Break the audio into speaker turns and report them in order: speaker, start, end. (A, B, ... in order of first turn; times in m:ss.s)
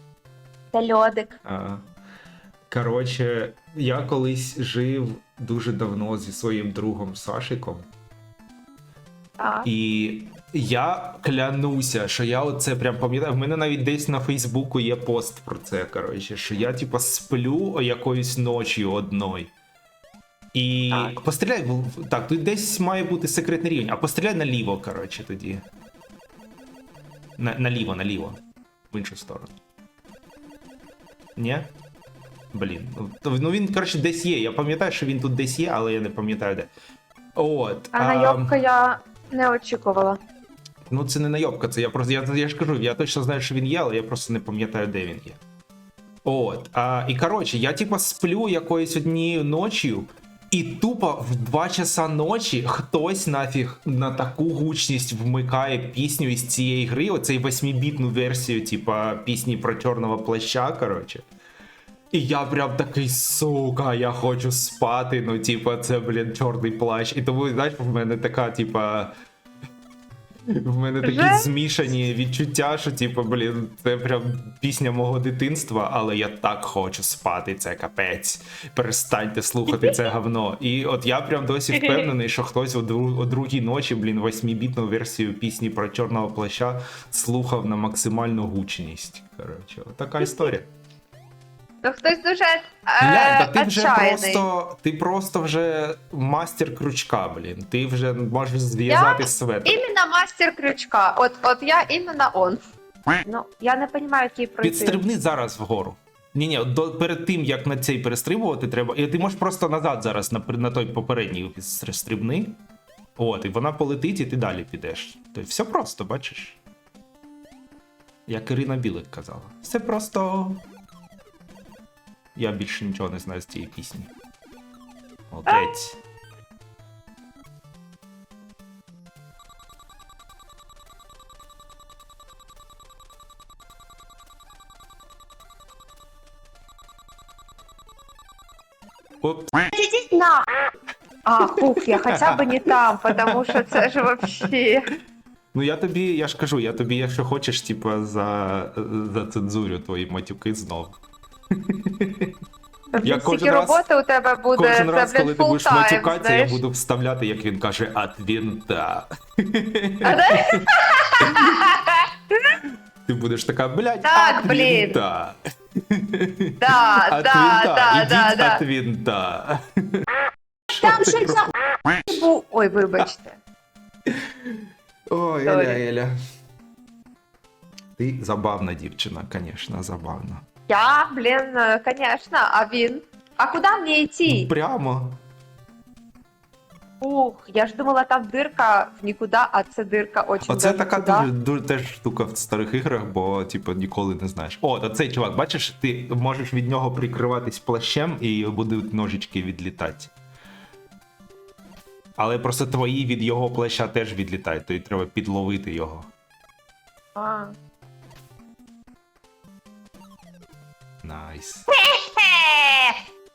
0:00.7-0:01.4 A
0:01.4-0:01.9 B
0:02.7-0:07.9 B
0:09.4-0:09.7 A
0:09.6-0:19.5 B
0:20.5-0:25.6 B
0:20.9-0:21.2 A
0:27.4-0:28.4 B
0:28.9-0:29.6 B
0:31.4-0:31.7 B
0:32.5-0:36.7 B
0:37.4-0:38.6 B
0:37.9-0:40.2 A
0:40.9-0:45.4 B
0:46.2-1:01.2 B
1:02.1-1:09.2 B
1:10.5-1:30.7 B
1:11.0-1:11.5 A
1:19.7-1:20.0 A
1:21.7-1:22.1 A
1:31.8-1:34.4 A
1:33.0-1:39.8 B
1:38.9-1:42.6 A
1:43.2-1:45.0 A
1:44.6-1:52.6 B
1:53.2-1:56.6 B
1:58.3-2:00.6 B
2:02.4-2:04.1 B
2:05.3-2:06.0 B
2:19.2-2:19.7 B
2:19.7-2:20.4 A
2:21.3-2:24.9 A
2:21.7-2:24.5 B
2:25.5-2:31.0 B
2:31.5-2:32.4 B
2:32.9-2:36.6 A
2:33.0-2:33.8 B
2:34.6-2:40.7 B
2:40.0-2:42.6 A
2:41.2-2:41.6 B
2:43.0-2:50.1 B
2:44.0-2:45.0 A
2:46.6-2:48.6 A
2:50.7-2:51.4 B
2:50.7-2:53.4 A
2:54.1-2:56.1 B
2:55.4-2:55.8 A
2:58.0-3:00.4 B
3:00.7-3:04.5 A
3:04.3-3:05.2 B
3:07.0-3:11.3 A
3:10.5-3:20.1 B
3:22.2-3:26.1 B
3:27.2-3:27.5 A
3:31.0-3:31.7 B
3:31.7-3:33.0 A